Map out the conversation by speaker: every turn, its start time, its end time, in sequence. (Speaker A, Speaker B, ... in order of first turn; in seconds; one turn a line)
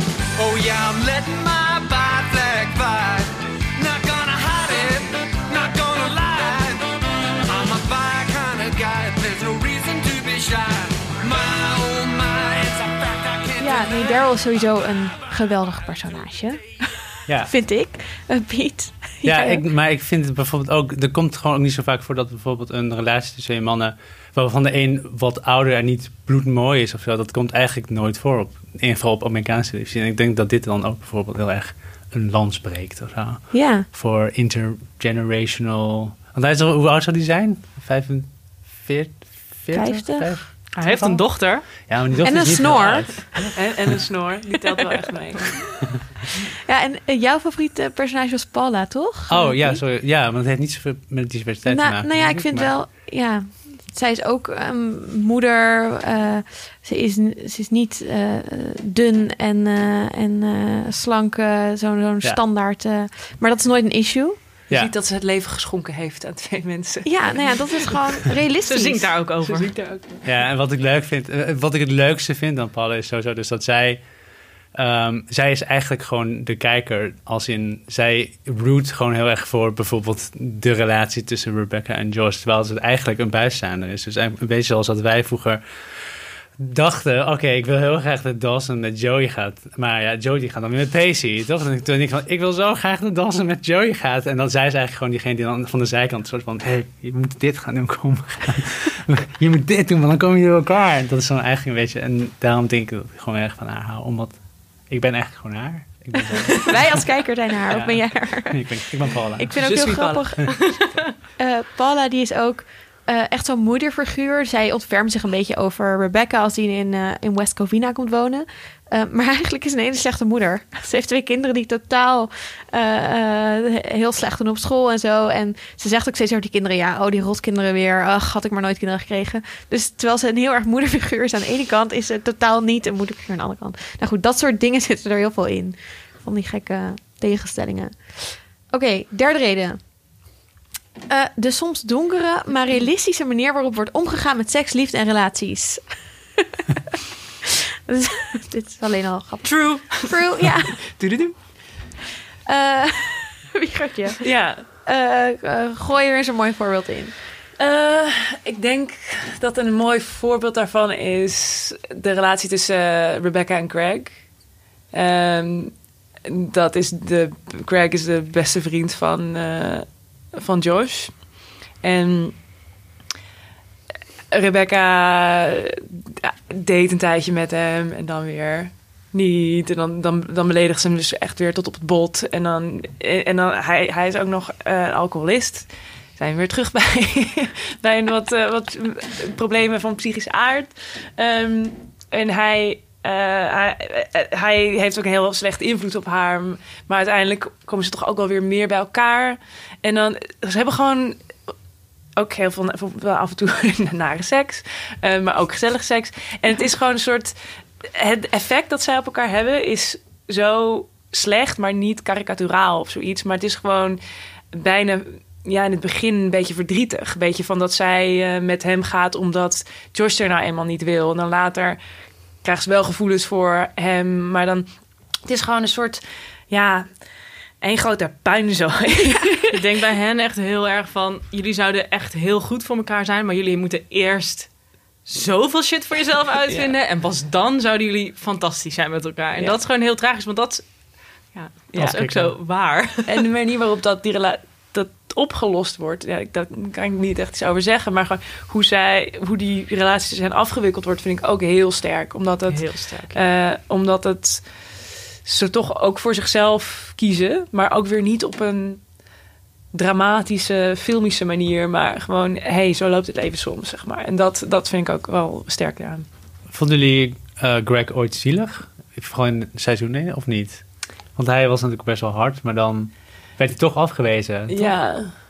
Speaker A: 0.3-6.9
Speaker A: 7.5-14.4
Speaker B: 13.6-19.6
Speaker C: 17.3-17.5
Speaker C: 19.2-43.8
Speaker B: 33.5-33.9
Speaker B: 39.7-40.4
Speaker D: 40.7-41.6
Speaker B: 42.2-43.2
Speaker E: 43.5-45.5
Speaker B: 46.7-49.8
Speaker C: 49.3-52.8
Speaker B: 51.6-64.4
Speaker E: 64.7-68.3
Speaker B: 67.0-69.1
Speaker D: 68.7-69.7
Speaker E: 69.3-70.2
Speaker C: 70.2-74.0
Speaker C: 74.7-86.0
Speaker C: 86.6-109.6
Speaker B: 106.6-110.7
Speaker E: 109.5-110.3
Speaker B: 111.4-139.8
Speaker B: 141.1-146.1
Speaker B: 147.9-150.9
Speaker D: 149.4-150.1
Speaker E: 150.9-151.8
Speaker B: 152.5-157.1
Speaker E: 154.2-154.6
Speaker E: 157.6-164.3
Speaker E: 164.9-165.7
Speaker E: 166.2-171.3
Speaker E: 171.8-172.4
Speaker E: 174.3-201.2
Speaker E: 202.2-214.0
Speaker E: 214.5-221.8
Speaker E: 222.4-226.9
Speaker E: 227.6-229.5
Speaker D: 229.5-234.5
Speaker D: 235.0-243.2
Speaker E: 241.7-242.2
Speaker C: 241.7-242.3
Speaker E: 243.1-254.5
Speaker D: 252.5-253.2
Speaker E: 255.2-258.8
Speaker E: 259.7-266.1
Speaker C: 266.5-274.8
Speaker E: 274.5-275.1